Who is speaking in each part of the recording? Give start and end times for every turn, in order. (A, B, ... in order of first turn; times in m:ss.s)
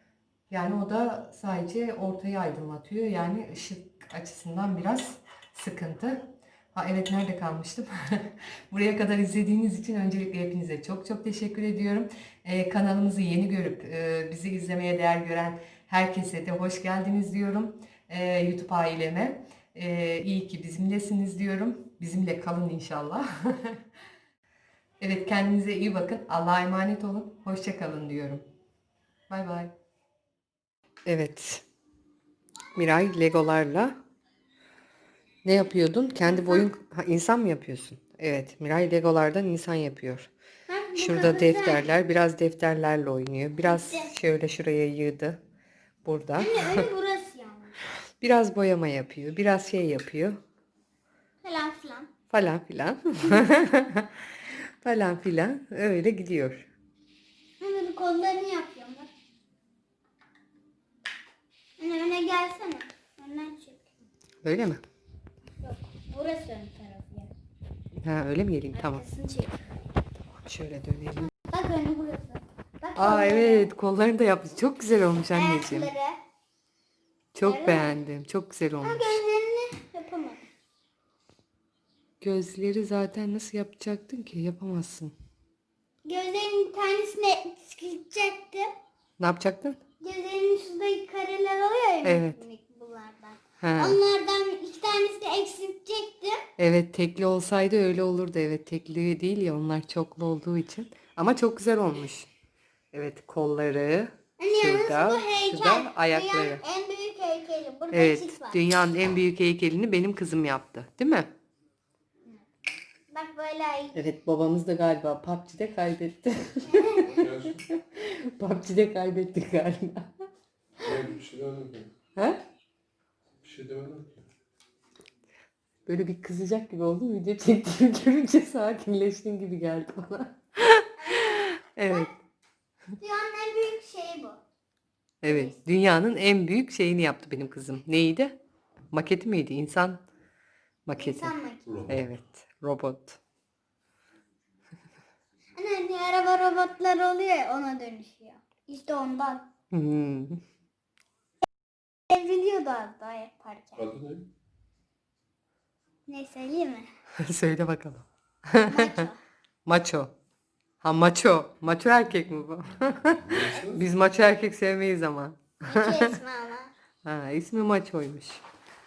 0:00.5-0:23.8 A
0:25.0-0:28.4 A
0:29.3-0:29.7 A
0:31.0-0:31.6 A
0:32.8-0:34.0 A
0:35.4-0:40.3 A
0:40.7-0:41.9 B
0:41.0-0:45.4 A
0:43.6-0:44.1 B
0:46.0-0:46.9 A
0:46.4-0:47.8 B
0:48.2-0:50.4 A
0:51.4-0:52.1 B
0:52.3-0:54.1 A
0:54.8-0:56.7 A
0:57.6-0:59.1 B
1:01.8-1:03.8 B
1:04.4-1:04.8 A
1:05.6-1:07.3 B
1:08.0-1:09.1 A
1:08.8-1:09.6 B
1:10.4-1:11.3 A
1:11.2-1:13.7 B
1:13.0-1:15.9 A
1:15.3-1:16.2 B
1:17.4-1:19.1 A
1:17.4-1:17.9 B
1:18.8-1:20.4 B
1:22.2-1:25.1 A
1:26.0-1:28.7 B
1:29.2-1:29.8 A
1:30.0-1:36.4 B
1:32.0-1:32.4 A
1:33.6-1:34.0 A
1:36.6-1:42.3 A
1:42.9-1:46.6 A
1:44.4-1:48.6 B
1:47.9-1:51.3 A
1:53.1-1:54.0 B
1:53.9-2:00.1 A
1:56.7-1:57.2 B
1:57.1-1:57.6 C
2:00.8-2:01.9 C
2:02.2-2:02.4 A
2:03.4-2:04.3 C
2:05.9-2:12.1 A
2:11.0-2:12.1 B
2:13.0-2:14.4 B
2:15.2-2:18.4 A
2:15.2-2:15.5 B
2:18.9-2:20.0 A
2:20.9-2:21.3 A
2:21.0-2:21.7 B
2:21.7-2:22.0 C
2:21.9-2:23.2 A
2:25.6-2:29.5 B
2:29.7-2:30.4 A
2:32.1-2:33.8 B
2:33.8-2:34.3 C
2:36.1-2:36.9 B
2:37.2-2:39.0 A
2:38.7-2:39.2 B
2:39.7-2:40.1 A
2:40.8-2:46.2 A
2:43.2-2:43.9 C
2:45.7-2:46.7 B
2:47.0-2:48.4 A